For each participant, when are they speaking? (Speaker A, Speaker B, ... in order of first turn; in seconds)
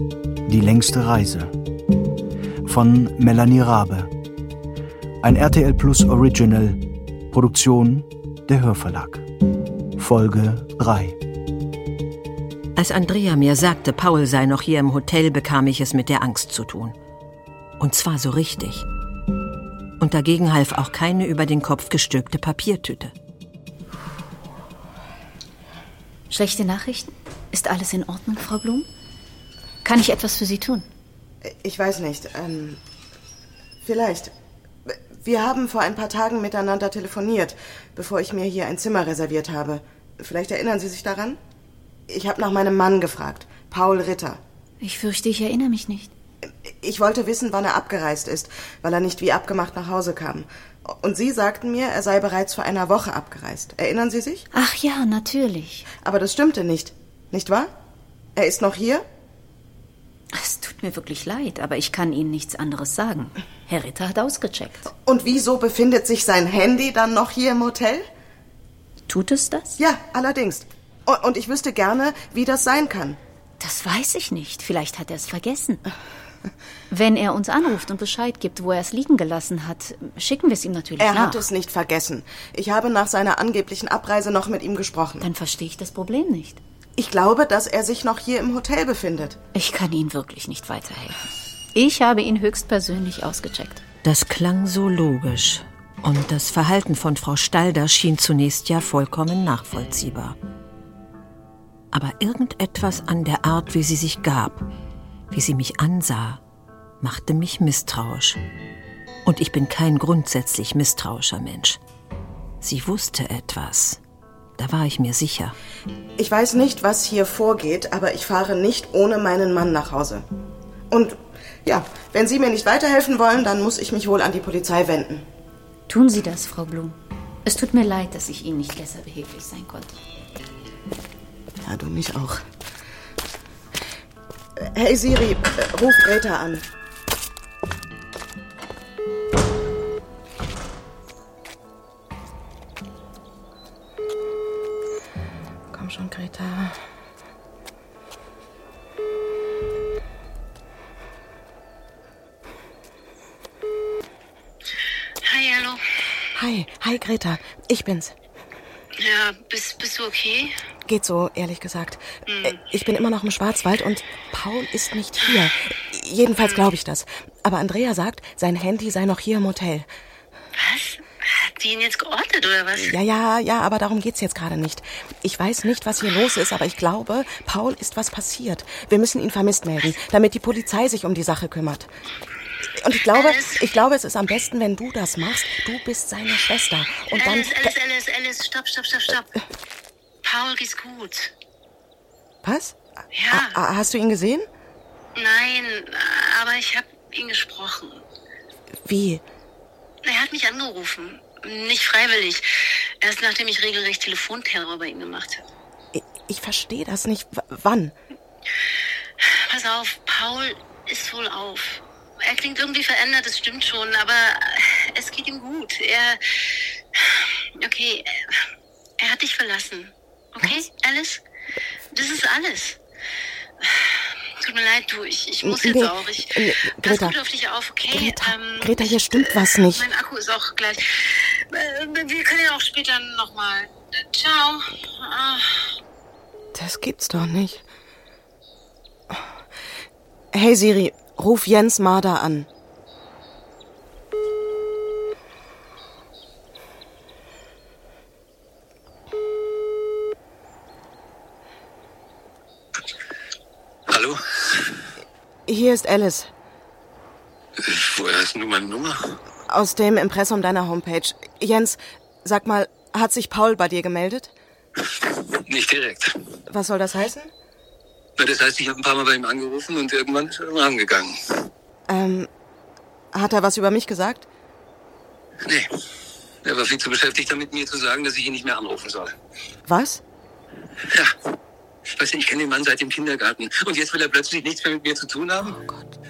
Speaker A: 0.5-1.5, 2.6-4.1, 5.2-9.2, 10.0-11.2
Speaker B: 12.8-16.9, 17.8-18.9, 20.0-23.1, 94.0-100.4, 101.9-104.7, 105.3-106.4, 107.0-108.4, 109.2-111.8, 112.6-114.0, 114.6-115.5
Speaker C: 26.3-28.9, 29.8-30.9, 44.8-46.1, 54.5-55.9, 60.3-64.9, 69.1-69.8, 73.6-75.8, 76.9-81.4, 85.2-86.6, 89.5-91.2, 91.7-93.8, 125.9-129.9
Speaker D: 31.4-32.8, 33.8-34.3, 34.9-41.4, 42.1-44.4, 46.5-54.5, 56.0-57.7, 58.4-59.0, 65.0-68.0, 69.8-73.2, 81.0-85.2, 87.0-89.4, 116.2-120.2, 120.9-125.2, 131.6-132.4, 134.6-136.7, 145.7-146.8, 156.3-158.1, 160.8-169.9, 172.8-181.9, 182.6-187.7, 192.4-192.8, 193.3-194.4, 198.8-199.2, 205.9-207.9, 225.4-227.2, 227.9-229.9, 236.5-237.6, 240.3-242.5, 255.5-256.3, 259.5-264.3, 266.5-267.3, 271.9-272.3, 273.1-274.3, 279.7-280.0, 285.5-285.9
Speaker E: 155.2-155.9, 159.0-160.5, 162.3-162.6, 170.5-172.9, 183.1-183.6, 187.2-189.4, 190.2-191.3, 193.1-193.5, 195.2-198.0, 200.0-205.4, 209.2-218.4, 219.0-221.2, 221.9-222.8, 223.6-235.8
Speaker F: 253.9-254.8, 257.6-259.2, 264.8-266.1, 268.2-271.4, 276.4-279.1, 280.8-281.1, 281.8-285.6